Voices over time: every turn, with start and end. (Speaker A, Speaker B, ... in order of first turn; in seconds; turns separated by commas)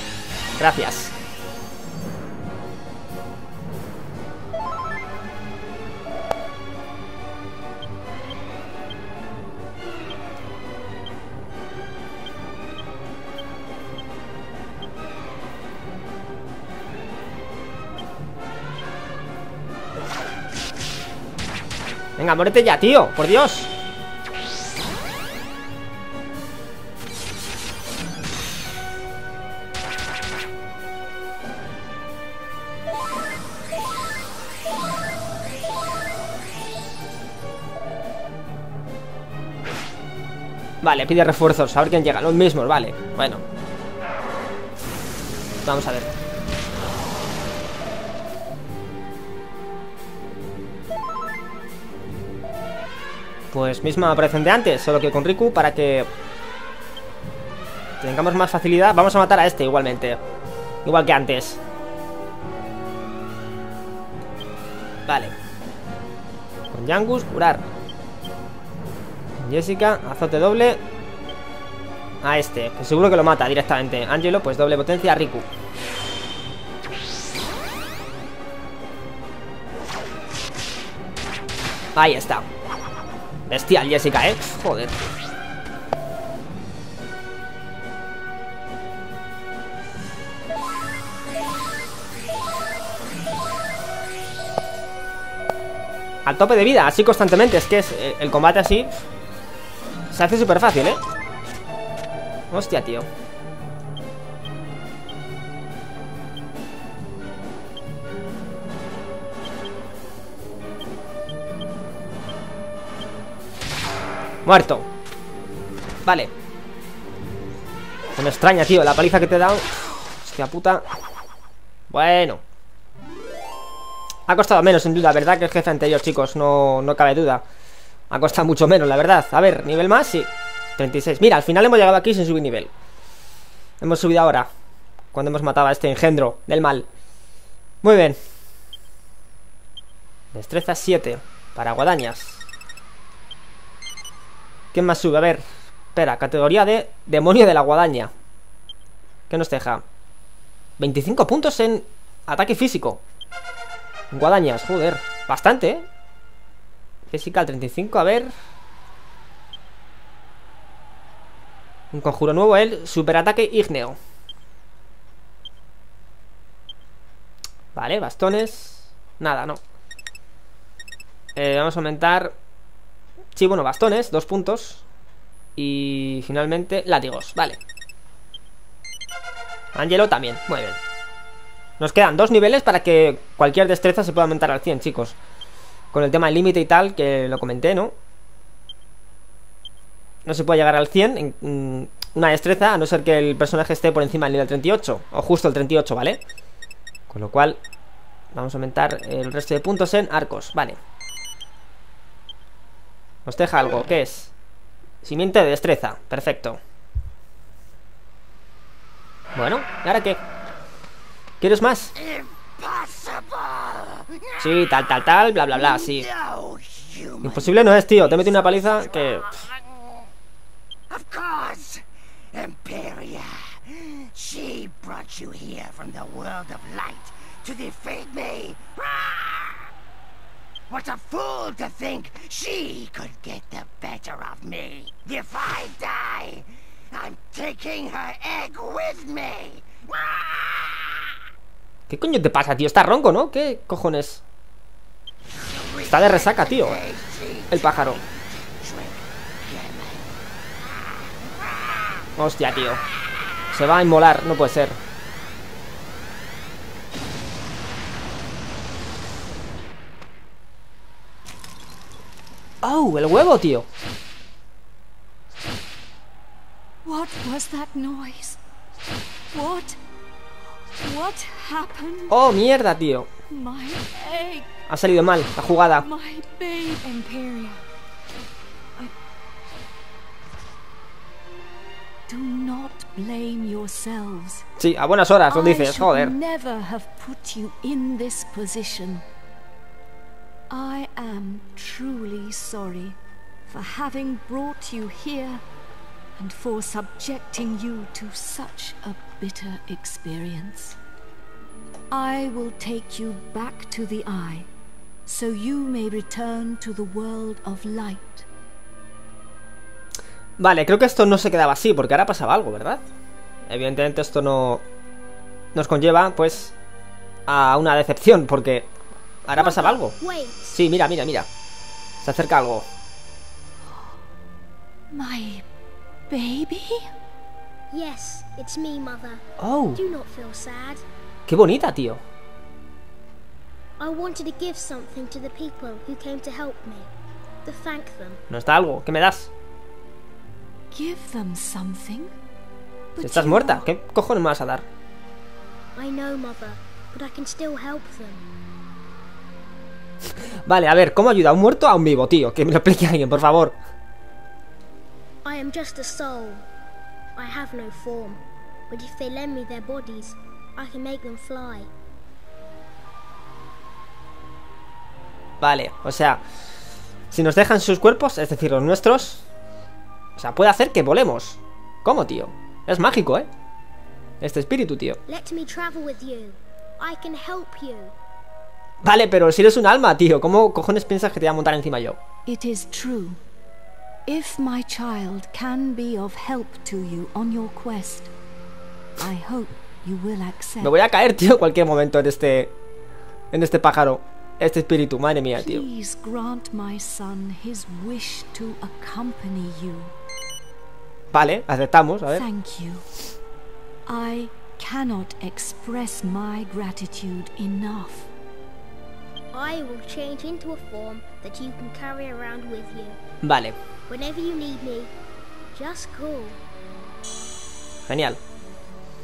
Speaker A: 0.6-1.1, Speaker A: 22.2-23.7, Speaker A: 40.8-43.4, Speaker A: 45.6-46.1, Speaker A: 53.5-56.1, Speaker A: 58.0-60.2, Speaker A: 60.8-61.6, Speaker A: 65.1-65.3, Speaker A: 66.7-67.6, Speaker A: 69.4-70.8, Speaker A: 72.2-75.5, Speaker A: 82.0-82.5, Speaker A: 83.5-85.0, Speaker A: 96.2-99.0, Speaker A: 100.1-101.0, Speaker A: 102.5-103.1, Speaker A: 114.4-114.9, Speaker A: 116.0-116.3, Speaker A: 118.2-120.8, Speaker A: 121.9-122.4, Speaker A: 124.3-127.4, Speaker A: 128.1-132.7, Speaker A: 133.8-134.5, Speaker A: 135.1-136.9, Speaker A: 137.8-138.2, Speaker A: 140.3-142.4, Speaker A: 144.7-145.4, Speaker A: 145.9-148.1, Speaker A: 149.3-149.8, Speaker A: 150.8-153.0, Speaker A: 154.1-155.8, Speaker A: 157.1-158.3, Speaker A: 161.9-164.0, Speaker A: 167.7-169.6, Speaker A: 171.3-172.3, Speaker A: 173.3-174.8, Speaker A: 175.6-177.6, Speaker A: 179.7-180.8, Speaker A: 181.8-185.2, Speaker A: 185.9-187.9, Speaker A: 190.2-196.2, Speaker A: 197.1-197.6, Speaker A: 198.3-200.8, Speaker A: 203.2-204.3, Speaker A: 205.0-206.6, Speaker A: 209.3-210.2, Speaker A: 211.4-211.9, Speaker B: 211.9-217.5, Speaker A: 214.4-216.1, Speaker A: 217.2-219.4, Speaker B: 218.1-219.6, Speaker B: 220.9-221.8, Speaker B: 222.3-229.7, Speaker B: 230.7-241.1, Speaker A: 241.9-244.2, Speaker B: 245.4-247.7, Speaker A: 245.8-246.8, Speaker A: 247.5-248.0, Speaker B: 248.6-250.0, Speaker B: 251.2-252.1, Speaker A: 252.2-252.8, Speaker A: 253.5-254.8, Speaker A: 262.6-263.6, Speaker C: 266.8-268.4, Speaker C: 269.3-269.8, Speaker C: 270.6-272.2, Speaker A: 272.1-273.1, Speaker C: 273.3-274.5, Speaker A: 274.7-275.9, Speaker C: 275.6-277.6, Speaker C: 282.1-284.4, Speaker A: 284.6-286.1, Speaker C: 285.3-289.0, Speaker C: 290.5-295.4, Speaker C: 296.1-300.8, Speaker C: 301.9-304.5, Speaker C: 305.1-308.3, Speaker A: 310.4-312.8, Speaker A: 313.5-314.6, Speaker A: 315.5-316.5, Speaker A: 317.3-318.7, Speaker A: 319.2-319.9, Speaker D: 319.3-320.4, Speaker A: 320.5-321.3, Speaker A: 322.0-322.7, Speaker C: 324.9-325.4, Speaker C: 326.1-326.9, Speaker D: 327.7-330.8, Speaker A: 329.4-329.8, Speaker A: 331.3-332.0, Speaker D: 333.8-336.9, Speaker D: 337.4-338.2, Speaker A: 338.3-339.3, Speaker C: 340.7-342.1, Speaker C: 342.9-343.7, Speaker A: 343.0-344.6, Speaker D: 345.8-348.2, Speaker A: 350.5-353.5, Speaker D: 355.2-356.4, Speaker D: 357.1-361.7, Speaker A: 365.4-366.2, Speaker A: 367.1-369.2, Speaker A: 370.2-373.3, Speaker A: 374.2-375.0, Speaker D: 375.1-377.9, Speaker A: 378.8-382.0, Speaker C: 382.2-383.2, Speaker C: 384.1-388.1, Speaker C: 389.0-390.7, Speaker A: 390.6-392.5, Speaker A: 393.3-395.6, Speaker C: 395.4-399.9, Speaker A: 401.1-402.2, Speaker C: 402.1-403.0, Speaker C: 403.9-408.1, Speaker D: 409.3-413.0, Speaker A: 413.2-413.6, Speaker D: 413.9-414.9, Speaker D: 415.5-416.4, Speaker A: 417.9-418.2